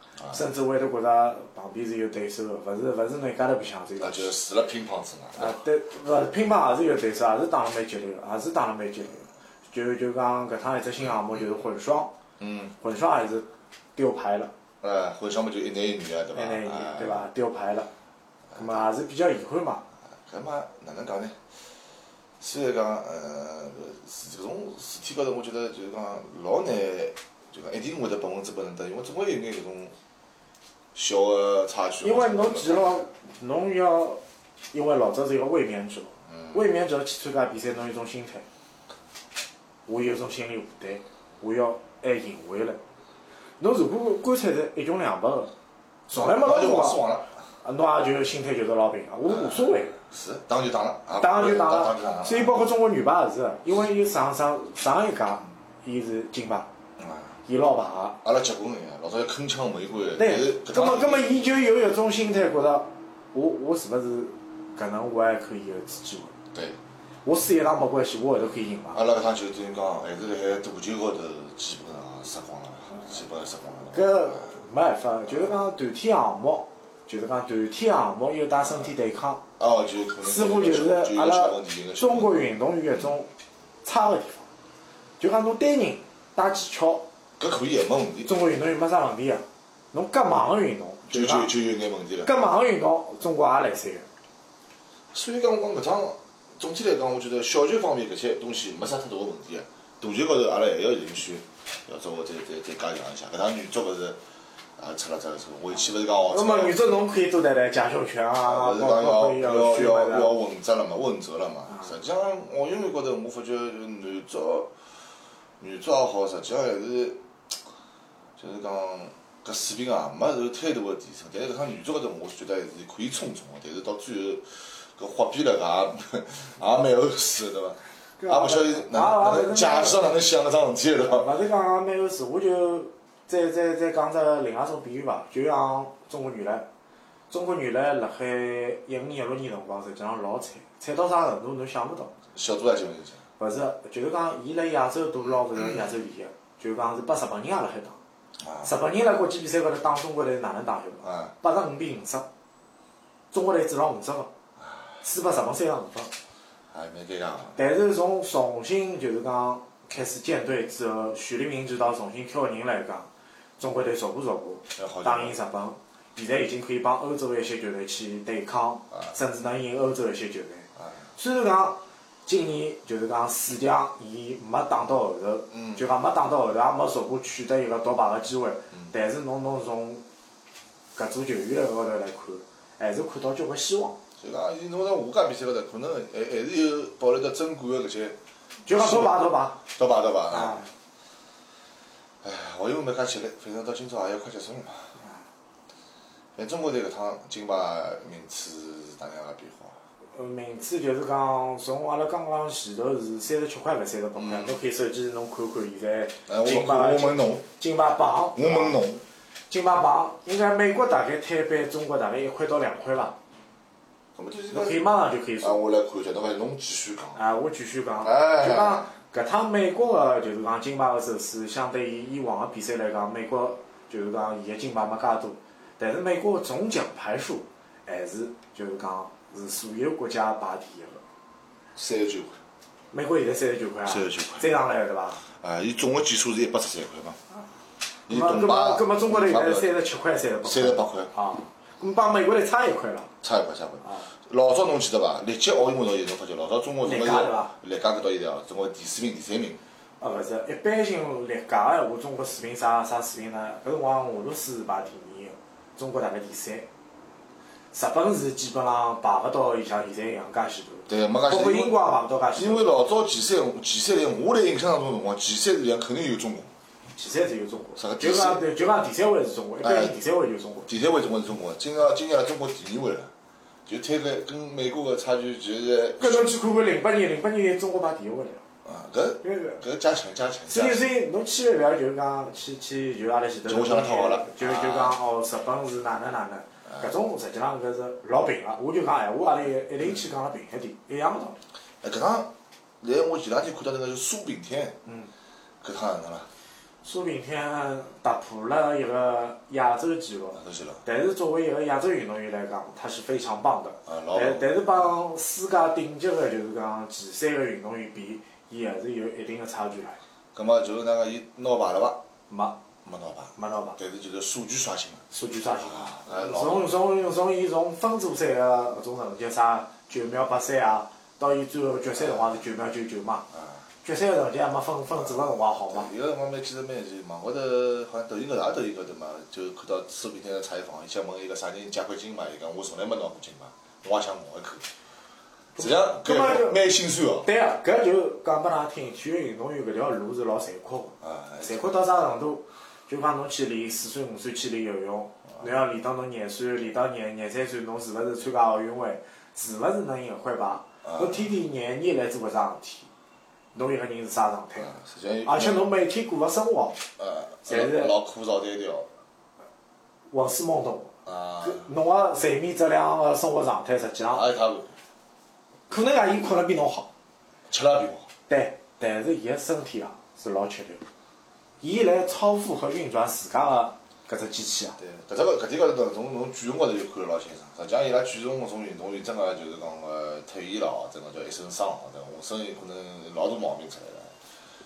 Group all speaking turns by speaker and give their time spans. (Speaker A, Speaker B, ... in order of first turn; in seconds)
Speaker A: 0.3-4.3, 5.4-12.1, 12.8-14.5, 16.3-17.9, 18.6-19.8, 32.0-34.2, 34.7-38.5, 39.9-42.8, 43.6-45.5, 46.1-47.0, 47.6-49.9, 51.2-56.7, 57.5-58.2, 60.2-66.3, 67.2-69.0, 73.9-79.4, 80.2-83.3, 83.8-84.5, 85.2-87.0, 88.2-91.5, 92.2-94.1, 106.3-110.3, 128.2-130.1, 131.0-136.7, 137.3-142.1, 143.4-148.0, 148.6-152.3, 153.3-154.3, 155.0-156.1, 157.6-180.0, 180.9-184.0, 188.7-189.6, 190.3-190.7, 200.1-208.8, 209.5-213.2, 214.5-215.6, 217.1-231.0, 232.9-235.2, 238.1-243.1, 243.8-244.1, 246.8-247.5, 250.0-256.7, 257.7-262.7, 266.9-270.7, 276.0-278.4, 279.2-279.6, 280.5-291.4, 296.8-310.0, 312.3-312.6, 313.4-313.8, 315.1-323.3, 323.8-325.9, 335.6-336.6, 337.2-352.9, 353.5-354.7, 355.2-356.8, 357.4-357.9, 360.1-364.2, 365.7-366.9, 368.3-370.8, 371.6-374.8
Speaker B: 4.0-5.6, 12.4-12.7, 14.8-17.2, 18.5-18.8, 20.2-21.4, 22.4-29.9, 30.9-33.1, 36.3-36.6, 46.1-47.3, 49.3-52.7, 57.0-57.4, 58.2-61.4, 66.5-66.8, 68.9-74.6, 75.3-75.5, 79.6-82.3, 87.4-88.3, 91.1-92.3, 95.1-104.2, 104.8-106.8, 108.4-114.7, 115.6-117.2, 118.4-131.3, 142.3-143.2, 148.4-148.7, 151.0-151.3, 154.6-154.9, 156.7-157.6, 164.7-165.4, 175.5-175.8, 184.2-188.2, 188.7-190.6, 192.2-194.9, 196.4-199.8, 204.1-204.6, 206.3-207.4, 208.3-209.0, 214.1-214.8, 215.4-217.2, 218.0-218.9, 231.7-232.4, 233.9-234.5, 235.2-237.2, 238.1-239.7, 240.4-241.1, 243.2-249.6, 260.9-261.8, 262.4-266.5, 267.8-268.4, 269.6-269.9, 270.6-273.1, 273.7-276.3, 278.6-280.8, 283.5-285.0, 291.8-294.8, 295.6-296.3, 300.4-300.8, 303.9-304.5, 310.4-312.0, 312.8-315.0, 315.6-316.8, 322.0-322.4, 323.3-323.6, 324.9-334.6, 335.6-337.3, 341.0-341.8, 350.8-351.3, 354.6-355.7, 357.0-358.9, 361.1-361.7, 364.1-364.7, 367.5-368.1, 374.8-384.1